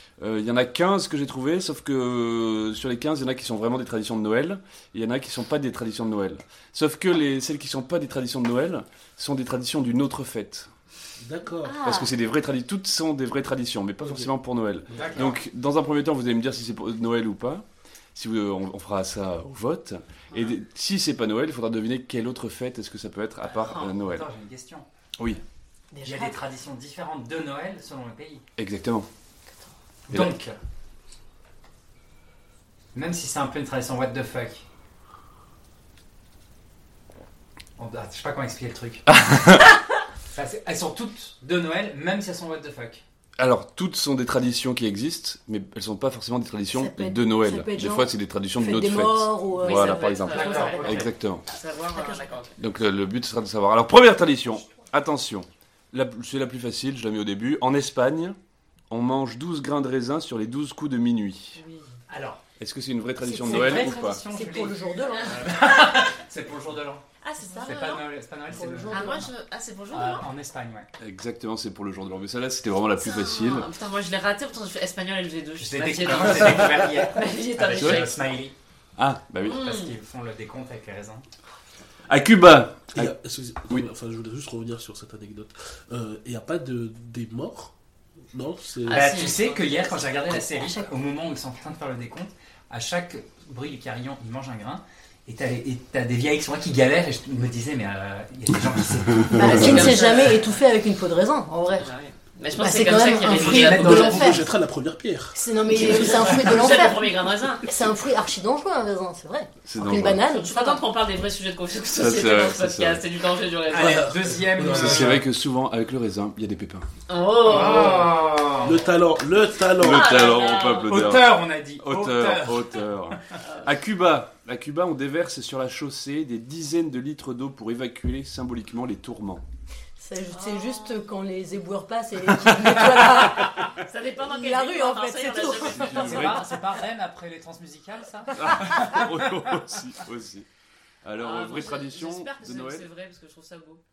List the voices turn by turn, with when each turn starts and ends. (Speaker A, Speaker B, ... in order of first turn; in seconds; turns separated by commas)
Speaker A: 0.2-10.7, Speaker B: 11.2-11.8, Speaker C: 11.6-12.1, Speaker A: 11.8-24.2, Speaker B: 14.0-14.3, Speaker B: 14.9-15.2, Speaker D: 14.9-15.3, Speaker D: 23.7-24.9, Speaker C: 25.9-26.4, Speaker D: 26.0-28.4, Speaker A: 28.6-29.1, Speaker D: 30.1-30.6, Speaker A: 30.1-30.3, Speaker D: 32.9-34.6, Speaker D: 37.8-39.0, Speaker A: 39.1-39.6, Speaker D: 40.3-43.0, Speaker A: 43.4-51.5, Speaker C: 46.7-50.0, Speaker E: 49.6-52.6, Speaker D: 50.2-51.1, Speaker C: 52.0-52.2, Speaker A: 52.6-58.4, Speaker A: 58.9-61.6, Speaker E: 61.5-61.9, Speaker D: 62.1-62.4, Speaker A: 62.6-64.2, Speaker C: 63.2-65.4, Speaker D: 63.3-69.2, Speaker E: 67.2-68.0, Speaker C: 67.4-67.7, Speaker C: 68.5-69.3, Speaker E: 68.9-70.3, Speaker D: 69.9-70.9, Speaker A: 71.0-73.7, Speaker E: 73.0-78.2, Speaker D: 75.6-78.5, Speaker A: 77.8-78.0, Speaker A: 79.0-79.7, Speaker E: 79.4-79.9, Speaker D: 79.6-81.2, Speaker A: 82.1-83.1, Speaker B: 82.9-87.7, Speaker B: 88.3-89.0, Speaker E: 88.8-90.8, Speaker D: 88.9-100.4, Speaker C: 99.3-101.9, Speaker E: 99.5-100.5, Speaker E: 101.8-104.2, Speaker C: 102.5-104.4, Speaker D: 103.2-104.4, Speaker B: 103.5-105.3, Speaker C: 105.3-107.1, Speaker E: 105.8-107.7, Speaker C: 107.6-110.8, Speaker A: 109.7-110.2, Speaker E: 110.1-114.1, Speaker A: 111.9-113.0, Speaker D: 113.7-115.2, Speaker B: 113.8-115.2, Speaker A: 114.7-116.8, Speaker E: 117.1-118.1, Speaker D: 117.4-118.9, Speaker B: 118.6-120.0, Speaker A: 119.7-129.4, Speaker E: 119.8-121.0, Speaker D: 120.8-123.2, Speaker E: 123.4-123.7, Speaker C: 130.0-133.5, Speaker E: 130.3-130.9, Speaker E: 133.8-136.5, Speaker C: 134.2-136.1, Speaker A: 135.6-136.5, Speaker D: 135.9-139.4, Speaker A: 138.3-140.5, Speaker A: 141.0-142.9, Speaker E: 141.2-143.8